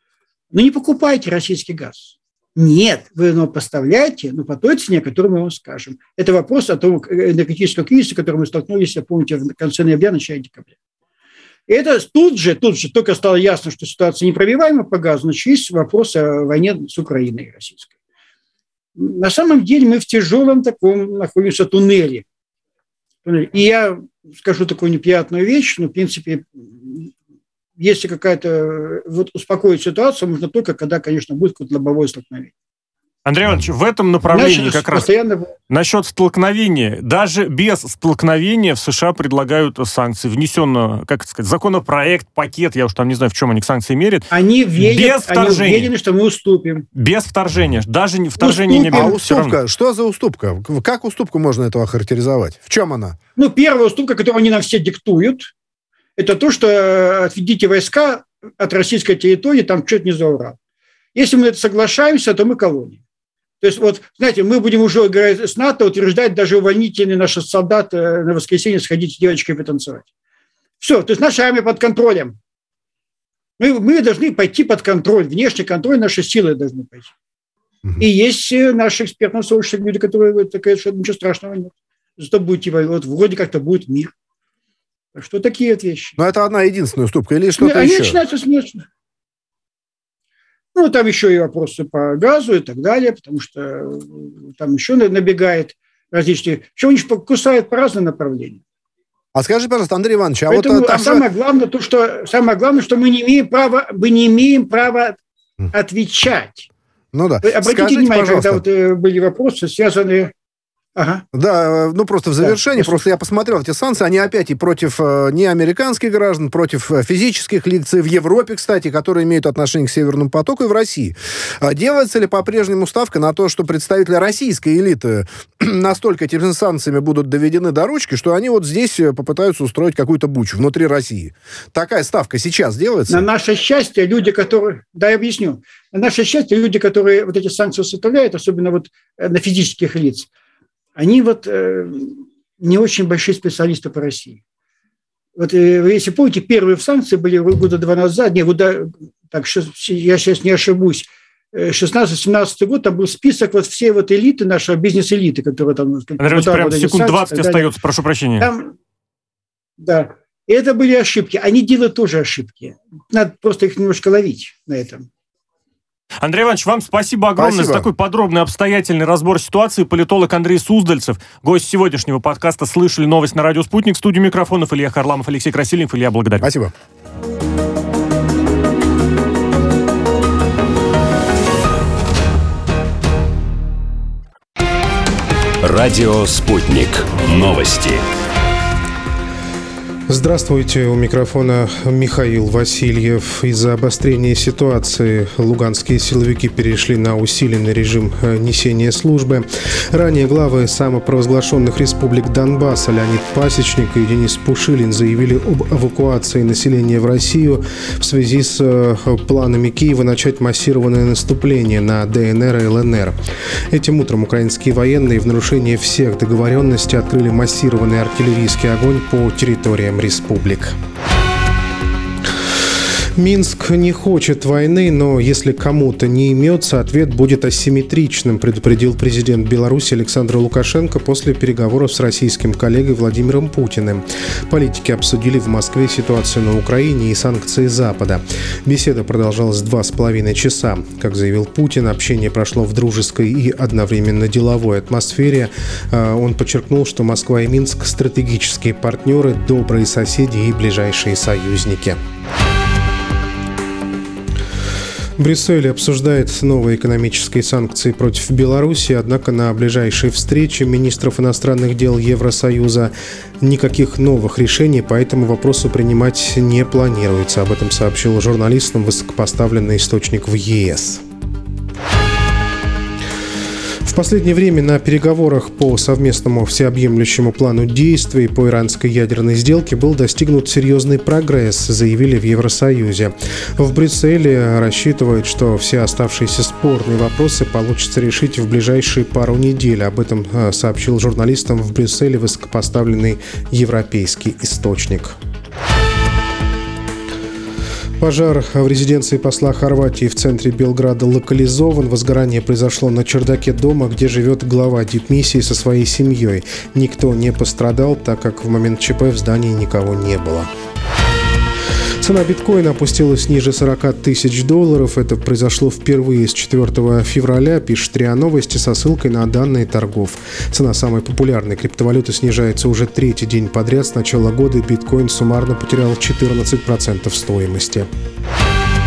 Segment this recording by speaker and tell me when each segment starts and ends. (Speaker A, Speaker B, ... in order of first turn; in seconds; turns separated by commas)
Speaker A: 0.5-10.7, Speaker A: 11.7-17.9, Speaker A: 18.9-22.2, Speaker A: 23.2-27.1, Speaker A: 27.8-32.5, Speaker B: 33.2-35.1, Speaker A: 34.3-35.5, Speaker B: 35.7-44.3, Speaker A: 44.3-46.9, Speaker B: 44.8-45.9, Speaker B: 46.9-49.6, Speaker A: 48.4-49.1, Speaker C: 48.9-53.2, Speaker A: 53.4-55.5, Speaker A: 56.2-60.6, Speaker A: 61.1-63.0, Speaker A: 63.6-70.0, Speaker A: 70.8-72.3, Speaker A: 73.6-77.1, Speaker A: 78.0-84.1, Speaker A: 85.1-86.2, Speaker C: 86.2-88.2, Speaker A: 87.6-88.8, Speaker A: 90.7-98.6, Speaker C: 99.3-101.2, Speaker A: 100.5-105.2, Speaker A: 105.7-106.7, Speaker C: 107.1-108.6, Speaker A: 107.4-110.3, Speaker A: 111.0-111.2, Speaker C: 111.3-133.2, Speaker A: 112.4-113.0, Speaker A: 133.1-140.3, Speaker A: 140.9-144.4, Speaker A: 145.4-157.7, Speaker B: 156.2-158.5, Speaker A: 158.4-158.7, Speaker A: 159.8-165.1, Speaker B: 166.2-176.5, Speaker C: 167.4-167.9, Speaker C: 176.4-176.7, Speaker D: 185.6-188.0, Speaker E: 190.1-213.2, Speaker E: 213.7-220.7, Speaker E: 223.2-252.0, Speaker E: 255.2-271.0, Speaker E: 273.8-295.1, Speaker E: 298.0-310.5, Speaker E: 312.0-327.9